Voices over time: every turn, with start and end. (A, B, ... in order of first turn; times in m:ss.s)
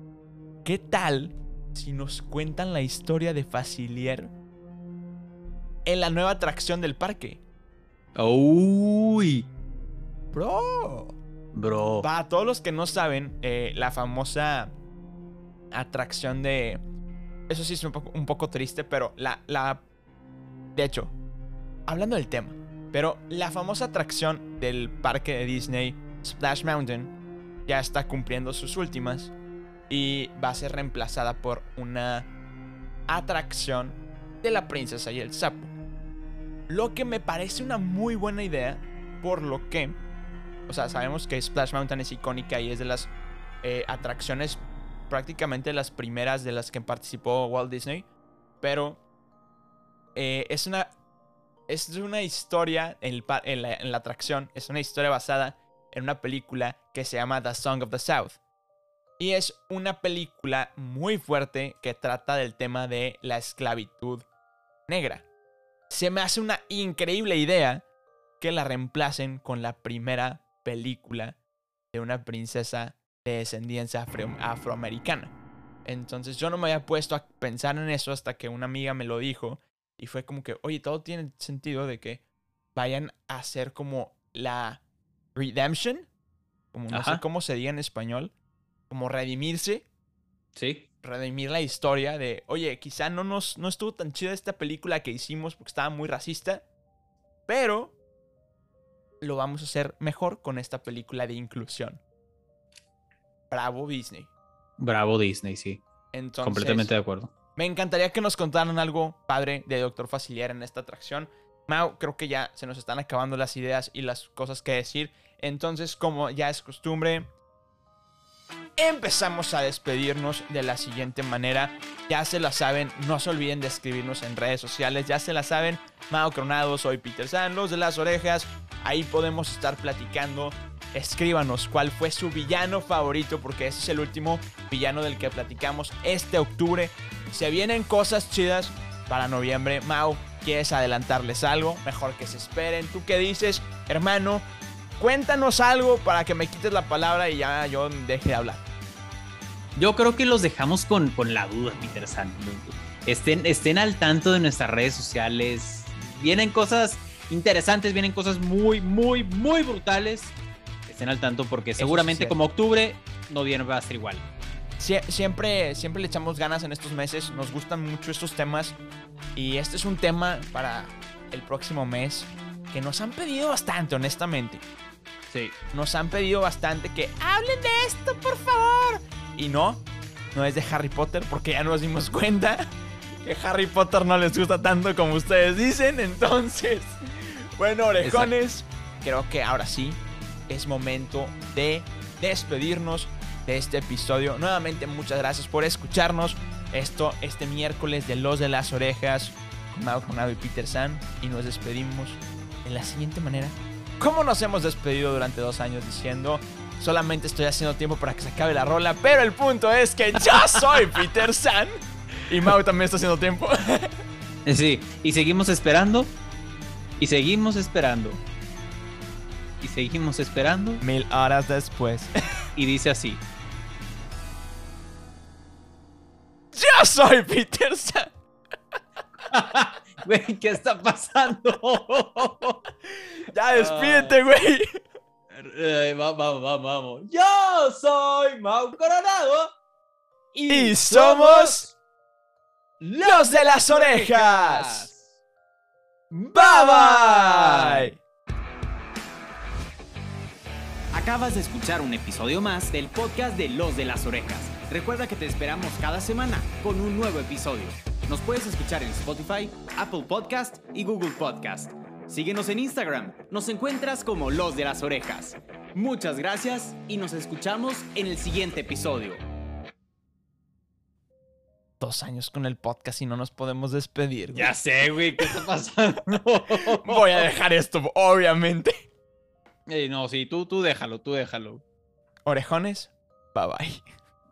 0:00.6-0:04.3 A
0:05.8-0:07.4 A
0:08.2-0:09.5 B
0:10.3-0:11.2 A
0:11.5-0:12.1 B
0:12.0-0:14.7 A
0:15.7-0:16.8 A
0:17.5-0:19.8 A
0:20.8-0:21.2 A
0:21.9-0:27.1 A
0:27.7-0:29.3 A
0:29.9-0:32.3 A
0:33.1-0:35.7 A
0:36.7-0:40.0 A
0:40.7-0:48.1 A
0:48.6-0:49.0 A
0:50.2-0:50.9 A
0:51.7-0:58.4 A
0:59.2-1:04.3 A
1:04.9-1:05.3 A
1:05.9-1:07.8 A
1:08.4-1:11.4 A
1:11.9-1:15.3 A
1:15.8-1:22.2 A
1:22.8-1:24.8 A
1:25.4-1:26.1 A
1:26.7-1:28.3 A
1:26.9-1:27.2 B
1:28.9-1:29.9 A
1:30.6-1:30.9 B
1:31.0-1:36.6 A
1:37.5-1:38.0 A
1:39.2-1:42.0 A
1:43.5-1:44.3 A
1:44.8-1:45.8 B
1:46.1-1:46.9 A
1:46.4-1:47.3 B
1:47.6-1:57.3 A
1:58.8-2:24.4 A
2:25.0-2:28.6 A
2:29.8-2:40.4 B
2:40.9-2:44.2 B
2:41.8-2:42.4 A
2:44.8-2:48.8 A
2:49.4-2:54.6 A
2:55.3-2:55.6 B
2:55.7-3:02.7 A
3:03.2-3:33.9 A
3:08.0-3:08.3 B
3:30.3-3:31.0 B
3:34.4-3:36.1 B
3:37.0-3:38.2 B
3:39.6-3:40.8 B
3:40.8-3:42.1 A
3:42.6-3:43.2 B
3:46.5-3:48.1 A
3:49.3-3:52.6 B
3:53.3-3:54.6 A
3:53.5-3:54.2 B
3:55.3-3:59.4 B
3:57.3-3:59.0 C
4:00.4-4:01.7 C
4:00.5-4:01.7 A
4:02.8-4:04.9 C
4:03.0-4:04.9 A
4:06.1-4:07.5 C
4:06.3-4:08.0 A
4:10.9-4:29.2 C
4:31.8-4:34.6 A
4:34.3-4:37.2 B
4:36.8-4:38.7 A
4:39.7-4:41.6 B
4:42.3-4:43.9 A